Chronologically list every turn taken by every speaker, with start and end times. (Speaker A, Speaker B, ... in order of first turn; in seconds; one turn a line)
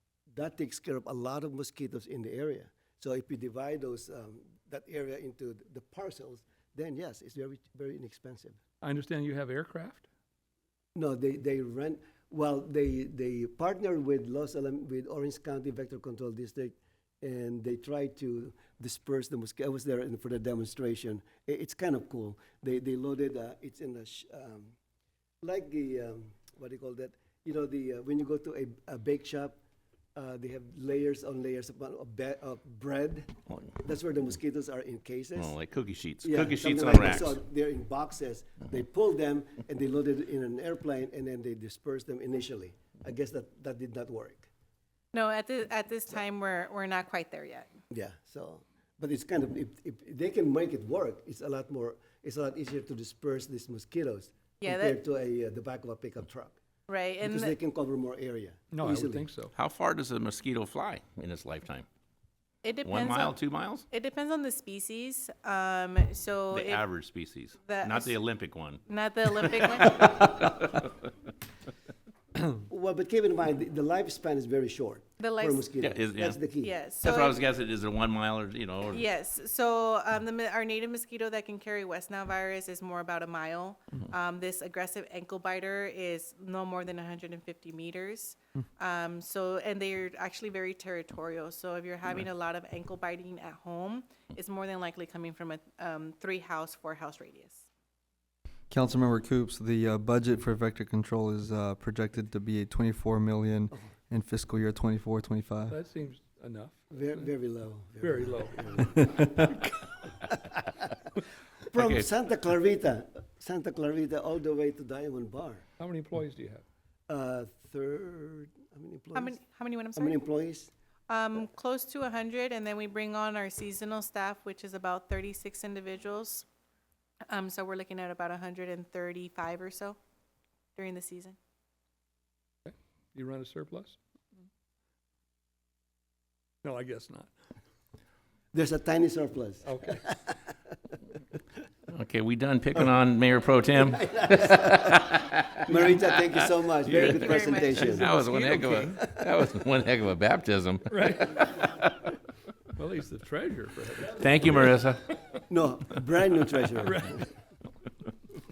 Speaker A: 0.3-8.6
Speaker B: 8.8-10.1
Speaker A: 10.9-24.8
Speaker A: 25.4-29.6
Speaker A: 30.2-35.5
Speaker C: 35.4-37.4
Speaker A: 36.2-44.5
Speaker D: 45.1-47.7
Speaker A: 47.9-56.6
Speaker D: 54.6-55.0
Speaker D: 56.9-57.5
Speaker A: 57.2-59.2
Speaker B: 58.7-59.5
Speaker C: 59.5-61.9
Speaker D: 62.6-63.4
Speaker C: 62.9-63.8
Speaker D: 63.9-66.8
Speaker C: 66.5-68.8
Speaker D: 67.7-68.2
Speaker D: 68.9-70.1
Speaker C: 69.4-70.8
Speaker A: 72.5-76.8
Speaker D: 75.2-75.7
Speaker C: 75.8-76.5
Speaker D: 76.6-77.4
Speaker C: 77.0-79.0
Speaker D: 78.9-97.7
Speaker E: 98.7-105.8
Speaker B: 105.7-107.3
Speaker A: 106.9-109.3
Speaker B: 108.0-109.3
Speaker A: 111.7-115.6
Speaker C: 111.8-112.0
Speaker B: 115.8-116.7
Speaker A: 117.1-119.4
Speaker D: 119.2-120.2
Speaker A: 120.0-120.7
Speaker D: 121.1-126.5
Speaker D: 127.3-130.0
Speaker D: 130.8-131.4
Speaker B: 132.7-134.0
Speaker B: 136.6-137.3
Speaker A: 138.5-140.2
Speaker B: 139.7-140.1
Speaker C: 141.9-146.1
Speaker A: 144.2-144.9
Speaker A: 145.7-148.1
Speaker C: 146.9-152.1
Speaker D: 147.1-148.5
Speaker B: 148.0-148.9
Speaker B: 150.9-151.4
Speaker B: 152.8-154.3
Speaker C: 154.2-155.1
Speaker A: 155.5-157.1
Speaker B: 156.8-157.2